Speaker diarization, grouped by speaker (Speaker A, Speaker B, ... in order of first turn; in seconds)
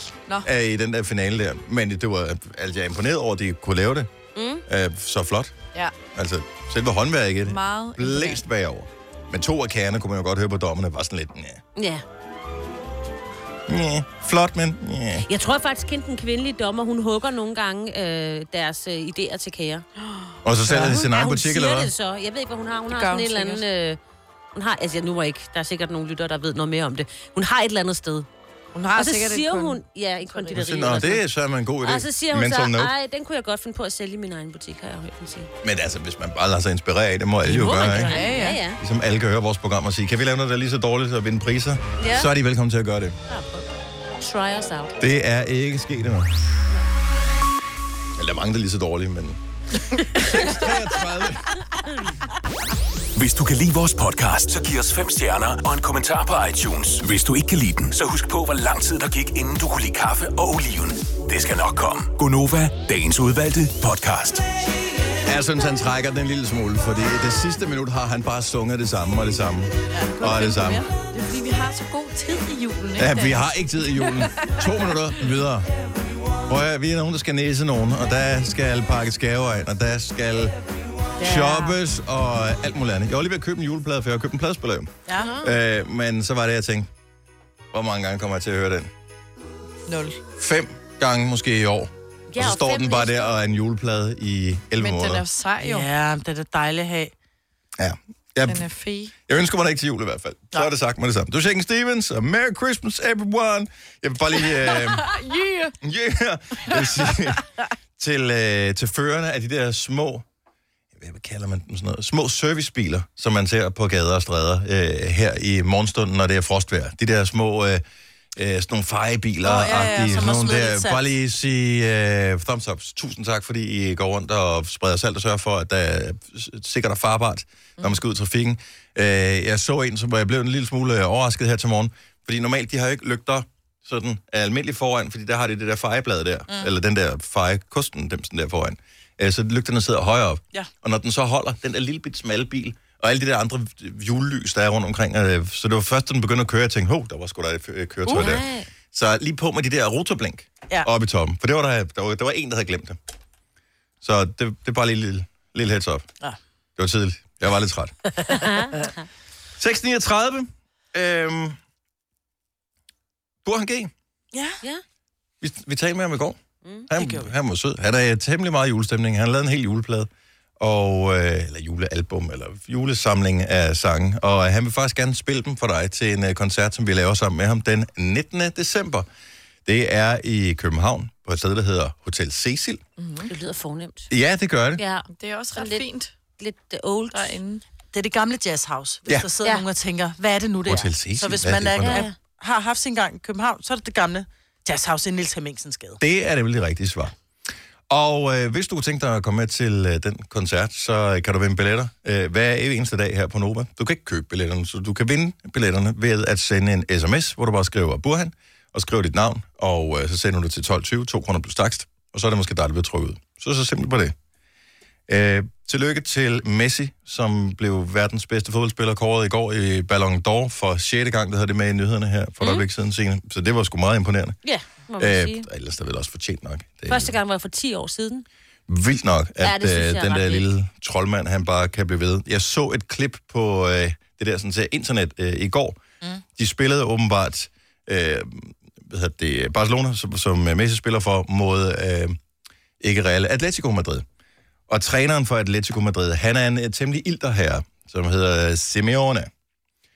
Speaker A: 0.4-4.1, 4.7-5.5, 6.1-11.6, 13.7-15.2, 20.4-21.9, 30.5-32.9, 35.6-38.1, 38.8-43.2, 45.0-46.3, 48.1-49.4, 50.1-51.5, 65.2-70.8, 73.0-75.7, 76.5-80.5, 81.2-86.9, 87.7-88.9, 90.4-95.2, 97.8-98.7, 99.3-105.1, 105.8-107.5, 108.0-110.2, 111.0-117.8, 118.3-153.0, 154.0-156.1, 156.8-157.9, 159.6-161.6, 163.4-163.9, 165.4-170.1, 170.6-179.1, 179.7-182.8, 184.1-184.8, 190.7-192.1, 196.0-197.1, 197.9-214.1, 215.1-224.4, 225.0-227.2, 228.7-235.8, 236.3-242.2, 242.8-244.0, 244.7-249.3
Speaker B: 4.3-4.6, 11.8-12.0, 15.2-19.9, 20.7-24.0, 24.5-28.3, 28.9-31.2, 31.8-35.5, 37.7-38.8, 42.0-42.3, 43.3-43.6, 44.2-44.9, 85.2-85.5, 92.3-93.3, 148.1-148.7, 158.3-159.1, 183.3-184.1, 184.8-185.8, 186.4-187.4, 191.8-192.1, 222.4-222.6, 224.4-225.5, 226.8-228.2, 229.4-230.4
Speaker C: 7.5-8.4, 20.0-20.3, 22.9-23.6, 28.7-30.6, 37.9-38.6, 71.1-74.9, 81.2-81.7, 89.9-90.2, 94.8-95.9, 98.5-99.1, 104.5-105.7, 106.7-107.1, 183.0-183.3, 185.1-186.1, 187.1-187.6
Speaker D: 37.5-38.3, 69.9-70.8, 85.0-85.3, 95.6-97.1, 119.4-121.0, 148.1-148.4, 158.2-158.5, 164.3-164.6, 166.9-167.3, 187.9-196.0
Speaker E: 53.1-64.5